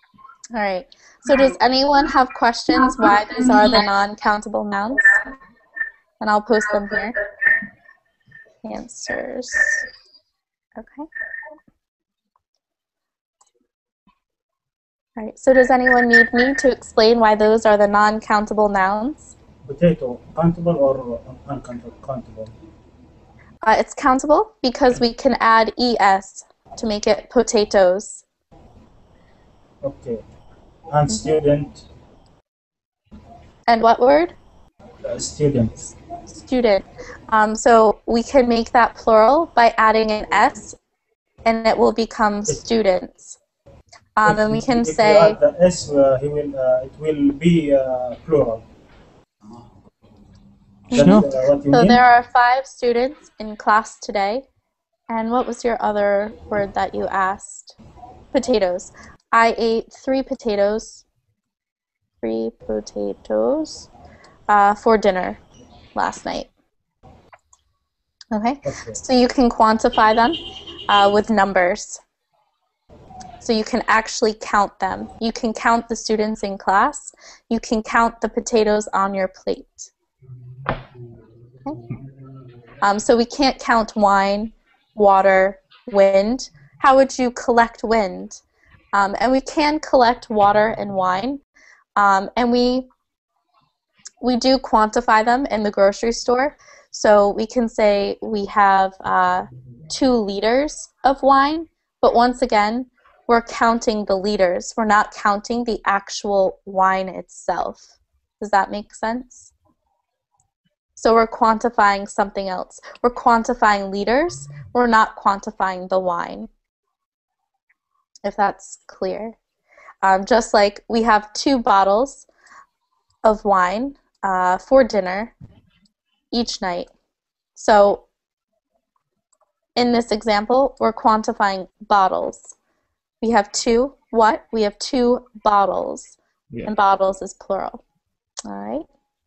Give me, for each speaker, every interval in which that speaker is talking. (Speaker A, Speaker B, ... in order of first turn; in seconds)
Speaker A: 0.5-5.1, 6.2-7.2, 8.6-9.8, 10.8-11.1, 15.2-19.3, 23.6-28.2, 33.7-34.4, 36.3-40.8, 41.5-43.4, 44.2-45.4, 50.9-54.5, 55.1-57.8, 58.3-61.0, 62.2-63.9, 64.5-65.4, 66.0-66.5, 68.3-72.0, 73.4-79.9, 82.8-88.4, 88.9-91.4, 92.0-92.9, 94.2-109.5, 111.0-116.5, 118.2-119.4, 120.0-122.3, 123.2-125.3, 126.3-126.9, 127.6-128.0, 129.8-132.5, 133.2-137.8, 138.5-138.9
Speaker B: 19.7-22.5, 29.8-30.2, 30.9-31.8, 35.1-35.9, 44.2-48.6, 50.9-52.0, 68.6-69.0